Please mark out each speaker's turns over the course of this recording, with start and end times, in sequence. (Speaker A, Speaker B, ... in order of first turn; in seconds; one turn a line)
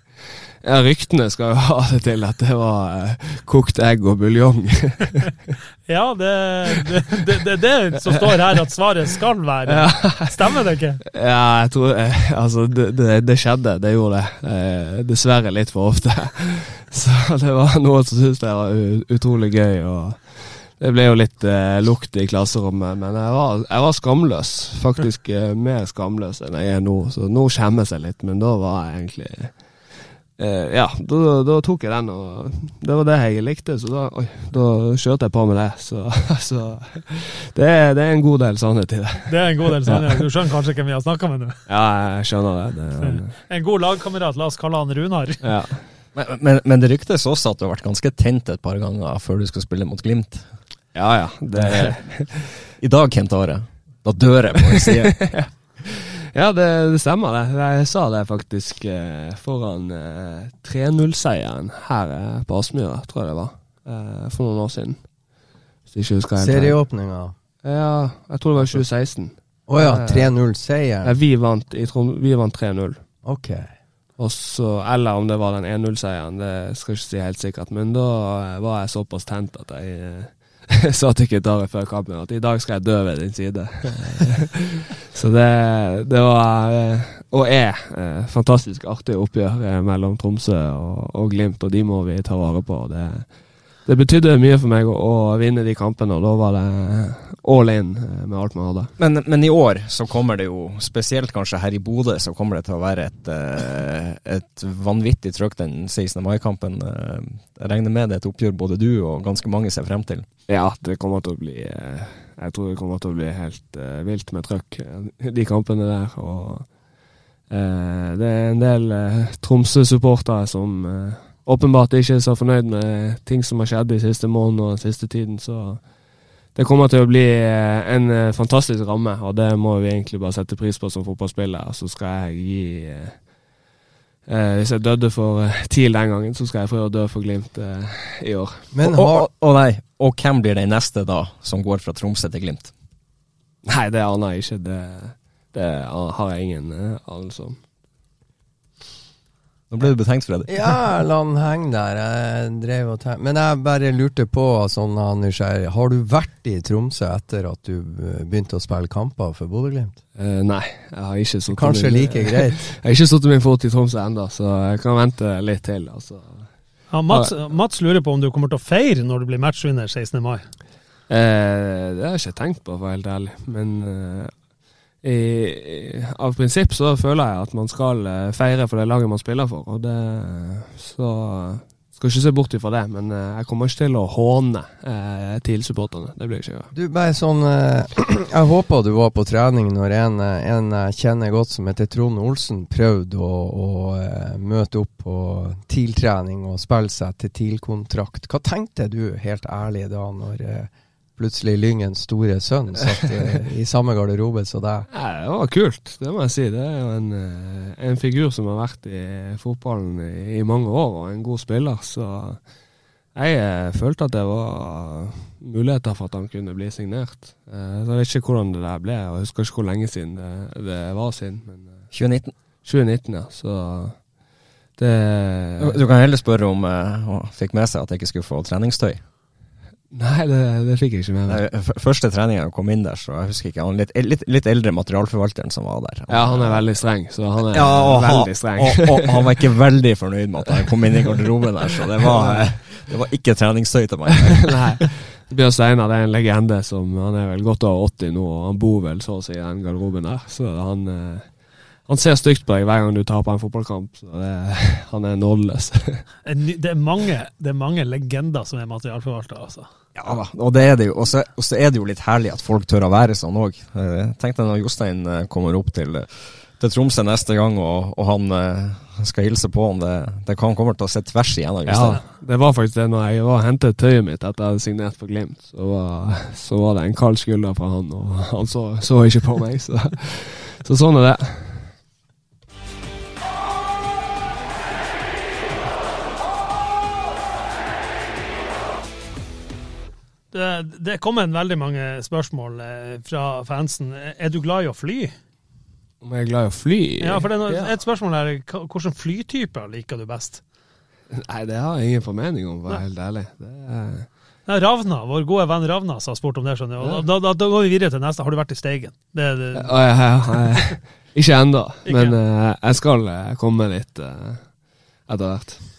Speaker A: 0.6-5.3
Speaker B: 5.9-11.0
Speaker A: 9.7-10.6
Speaker A: 11.2-40.2
Speaker B: 39.3-41.5
Speaker A: 41.7-43.3
Speaker B: 43.0-45.4
Speaker A: 45.4-45.8
Speaker C: 46.1-50.5
Speaker A: 50.9-52.5
Speaker C: 51.5-52.2
Speaker C: 52.8-55.4
Speaker A: 55.2-65.0
Speaker A: 65.9-66.8
Speaker D: 66.4-67.3
Speaker A: 67.6-70.3
Speaker D: 69.7-71.1
Speaker A: 71.0-73.0
Speaker D: 73.2-73.6
Speaker A: 74.2-98.9
Speaker C: 99.0-110.2
Speaker A: 110.5-116.7
Speaker A: 117.5-125.9
Speaker A: 126.5-133.3
Speaker A: 134.3-138.6
Speaker D: 138.7-139.3
Speaker C: 138.8-142.7
Speaker A: 143.7-147.6
Speaker C: 149.7-150.5
Speaker D: 150.5-160.0
Speaker A: 160.2-166.5
Speaker D: 161.5-162.6
Speaker B: 166.9-170.5
Speaker A: 167.1-167.3
Speaker A: 171.1-174.3
Speaker A: 175.0-186.7
Speaker D: 186.7-204.9
Speaker A: 204.9-212.4
Speaker A: 213.1-221.8
Speaker C: 221.9-222.3
Speaker A: 222.6-224.0
Speaker A: 224.8-225.8
Speaker C: 225.6-229.0
Speaker A: 229.9-231.4
Speaker C: 231.3-236.7
Speaker A: 236.1-239.4
Speaker C: 237.5-244.6
Speaker A: 241.8-242.5
Speaker A: 244.5-256.0
Speaker B: 256.2-259.7
Speaker C: 259.9-272.0
Speaker A: 271.6-281.7
Speaker B: 290.3-295.1
Speaker A: 296.0-297.8
Speaker B: 297.0-300.4
Speaker A: 301.1-304.1
Speaker B: 304.5-310.2
Speaker A: 309.6-314.5
Speaker B: 311.9-312.2
Speaker A: 315.1-315.6